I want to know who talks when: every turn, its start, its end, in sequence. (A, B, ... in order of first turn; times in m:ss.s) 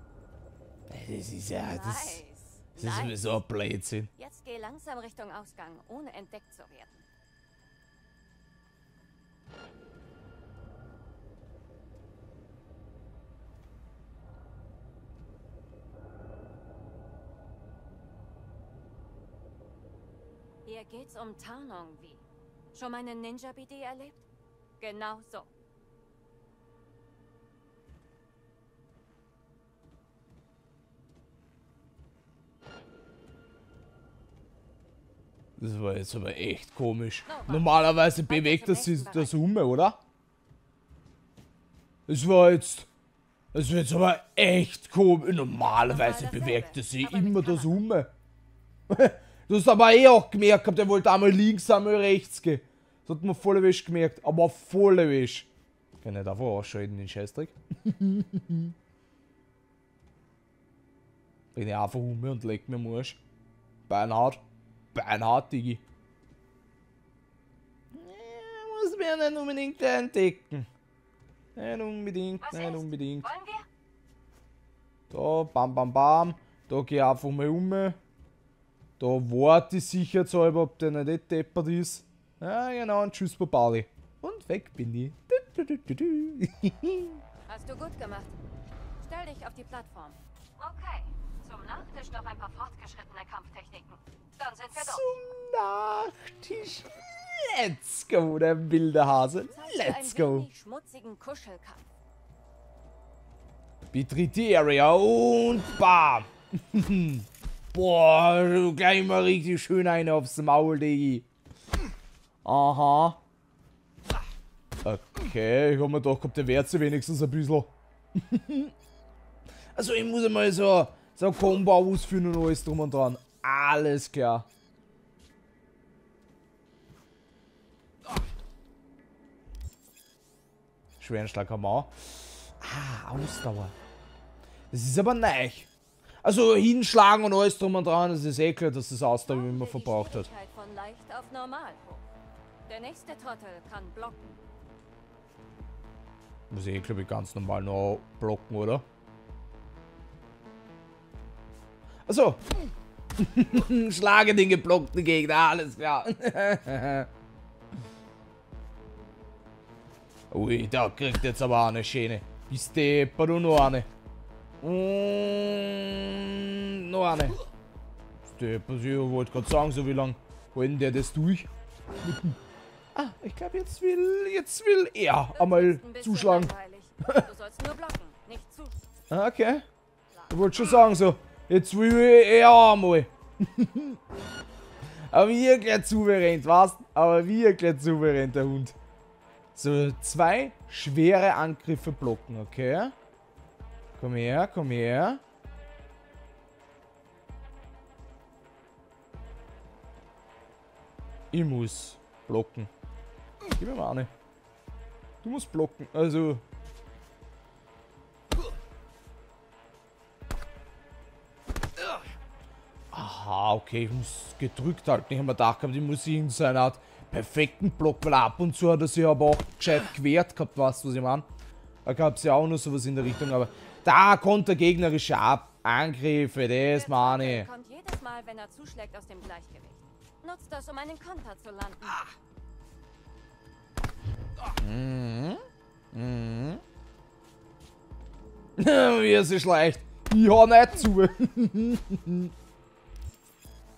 0:00.9-0:02.2 A
0:01.6-0:03.2 B
0:02.8-0:04.1 A
0:04.2-0:07.0 B
0:20.6-0:24.2 B
0:24.8-0:25.5 B
0:35.6-0:40.0 A
0:37.3-0:39.4 B
0:42.1-0:42.9 A
0:43.5-0:48.1 A
0:45.6-0:47.8 B
0:48.9-0:55.5 A
0:56.0-0:58.7 A
1:01.5-1:03.2 A
1:03.9-1:04.4 A
1:04.9-1:05.8 A
1:07.9-1:10.7 A
1:11.6-1:13.3 A
1:12.4-1:13.7 B
1:15.1-1:18.0 A
1:19.0-1:27.2 A
1:27.5-1:28.3 B
1:29.0-1:35.3 B
1:34.7-1:40.5 A
1:39.5-1:41.9 B
1:43.9-1:51.3 A
1:52.4-1:53.2 A
1:54.8-1:58.7 A
1:59.8-2:04.5 A
2:11.0-2:13.7 A
2:14.7-2:15.7 A
2:16.2-2:20.3 A
2:19.3-2:22.1 B
2:22.7-2:24.3 B
2:26.5-2:28.8 A
2:32.1-2:32.6 A
2:33.2-2:37.1 A
2:40.3-2:43.9 A
2:44.6-2:47.4 A
2:48.3-2:51.5 A
2:52.0-2:52.4 A
2:52.9-2:56.5 A
2:55.3-2:58.8 B
2:59.1-2:59.6 A
3:00.3-3:04.0 A
3:05.1-3:08.8 A
3:09.6-3:12.9 A
3:14.0-3:15.2 A
3:21.3-3:22.7 A
3:23.6-3:24.1 A
3:25.2-3:26.4 A
3:32.9-3:41.3 A
3:41.8-3:47.5 A
3:46.6-3:52.1 B
3:54.6-3:56.6 A
3:58.6-4:02.3 A